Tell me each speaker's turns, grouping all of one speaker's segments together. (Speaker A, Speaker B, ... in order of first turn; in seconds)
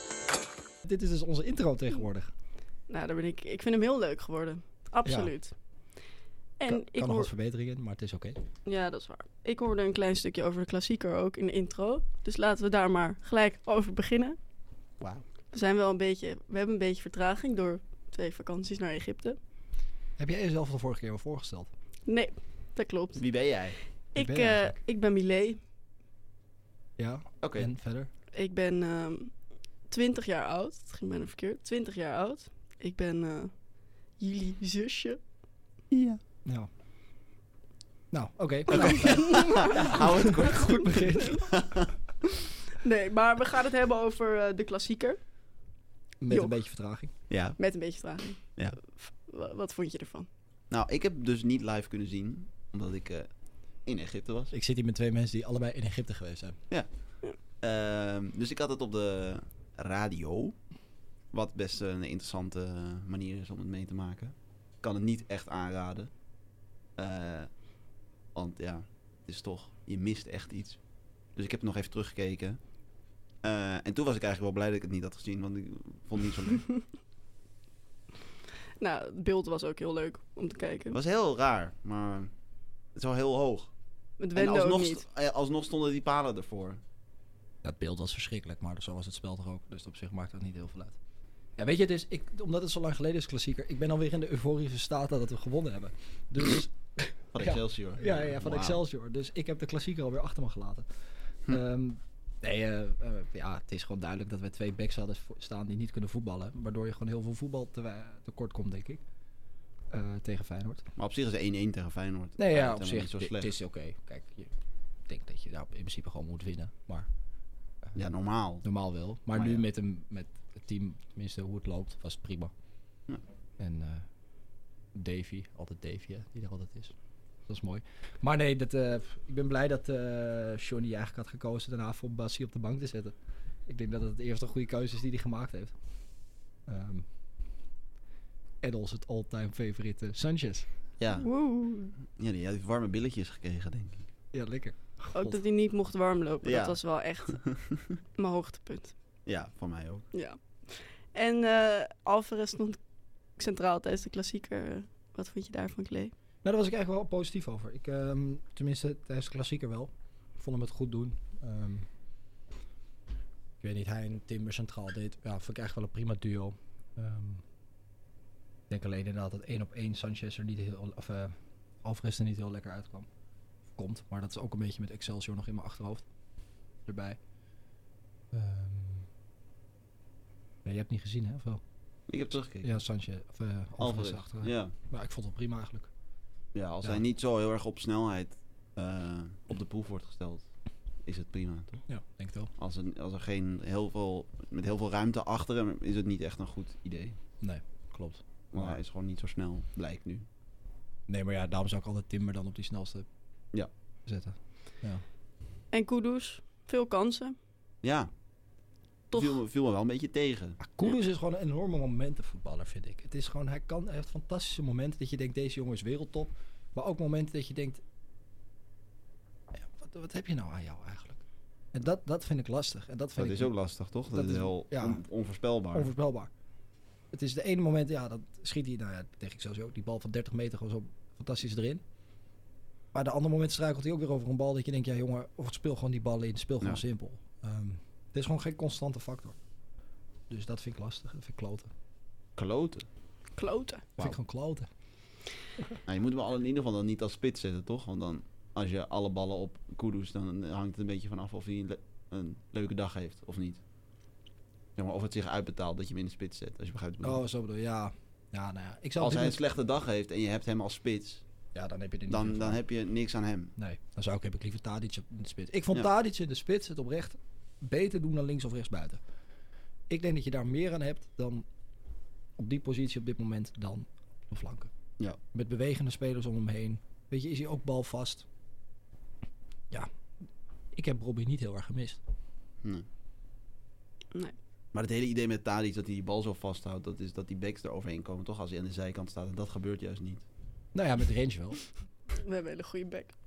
Speaker A: 0.8-2.3, 5.1-5.3, 6.7-8.4, 20.2-21.7, 24.2-24.8, 27.0-28.1, 38.1-41.6, 46.2-47.1, 54.5-56.6, 87.6-91.0, 91.6-100.9, 101.5-109.0, 109.9-110.9, 112.4-114.5, 115.1-117.1, 118.6-122.5, 123.6-124.1, 124.9-126.9, 127.5-133.2, 133.7-135.7, 136.7-137.1, 138.6-140.7, 144.3-145.4, 156.4-161.9, 163.6-167.4, 168.7-173.1, 173.8-176.1, 176.9-177.2, 178.3-179.1, 180.7-181.6, 182.6-185.9, 191.9-192.5, 197.4-198.8, 201.1-203.1, 204.1-205.0, 210.6-217.8, 219.6-223.5, 224.1-225.0, 225.7-226.3, 227.1-231.8, 232.9-239.4, 240.3-241.7, 244.0-244.7, 257.0-259.4, 261.6-262.6, 263.6-269.0, 269.9-271.4, 272.4-274.7, 275.3-278.2, 280.7-282.0, 290.7-291.6
Speaker B: 2.9-5.5, 6.6-7.3, 8.7-14.4, 15.5-19.4, 22.1-23.2, 24.1-25.6, 28.3-29.3, 29.9-33.5, 34.2-35.2, 39.0-40.7, 42.7-45.2, 47.6-50.3, 78.8-81.0, 84.2-85.0, 141.2-141.9, 145.1-147.5, 148.2-148.9, 150.1-152.8, 153.4-156.1, 205.7-207.4, 243.4-243.9, 292.1-293.1
Speaker C: 15.0-15.2, 23.2-23.8, 27.4-27.7, 35.9-36.2, 38.7-41.9, 47.3-47.6, 50.7-53.3, 53.9-54.5, 57.6-60.6, 61.3-66.1, 67.0-67.5, 68.3-70.8, 71.4-72.6, 73.4-76.7, 80.9-82.3, 83.0-83.7, 84.3-86.8, 97.3-98.8, 111.0-113.5, 118.0-118.7, 119.3-119.6, 141.0-141.3, 142.2-144.1, 146.4-146.8, 147.3-147.9, 149.3-150.1, 182.1-182.8, 183.8-184.7, 186.5-190.5, 191.1-191.8, 192.6-197.2, 198.5-200.3, 207.8-208.1, 209.1-210.6, 223.2-225.9, 242.4-242.9, 245.9-253.6, 254.8-257.2, 259.0-261.2, 262.1-263.5, 284.7-290.2